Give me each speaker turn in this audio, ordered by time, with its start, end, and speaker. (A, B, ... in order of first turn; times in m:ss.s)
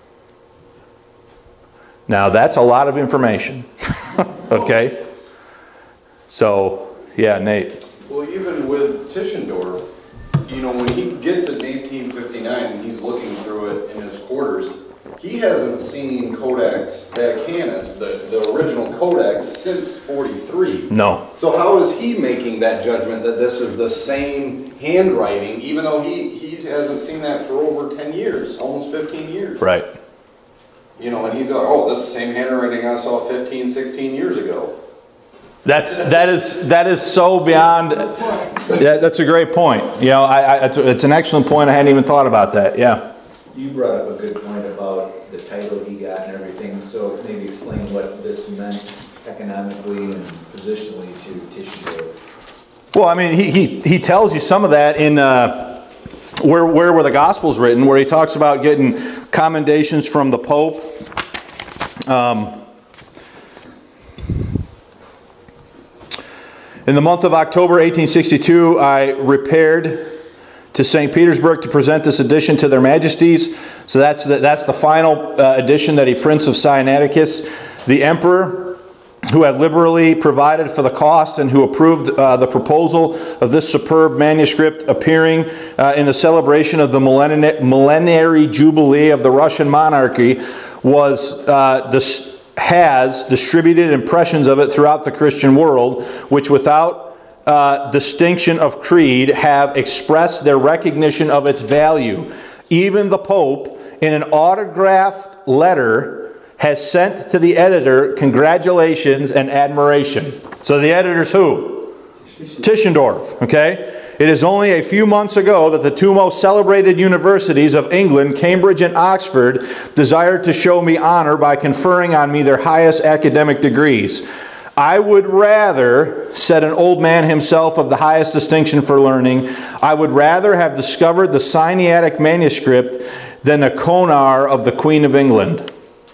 0:02.1-0:05.0 A
0:06.3-0:07.8 A
0:08.1-0:09.8 B
0:10.4-0:29.6 B
0:20.9-0:21.3 A
0:29.6-0:29.9 A
0:31.0-0:34.7 B
0:35.6-0:43.0 A
0:43.5-0:52.1 C
0:52.9-0:55.8 A
0:56.4-1:00.9 A
1:02.1-1:02.6 A
1:06.9-1:10.1 A
1:10.7-1:51.9 A
1:52.6-2:04.3 A
2:04.8-2:15.7 A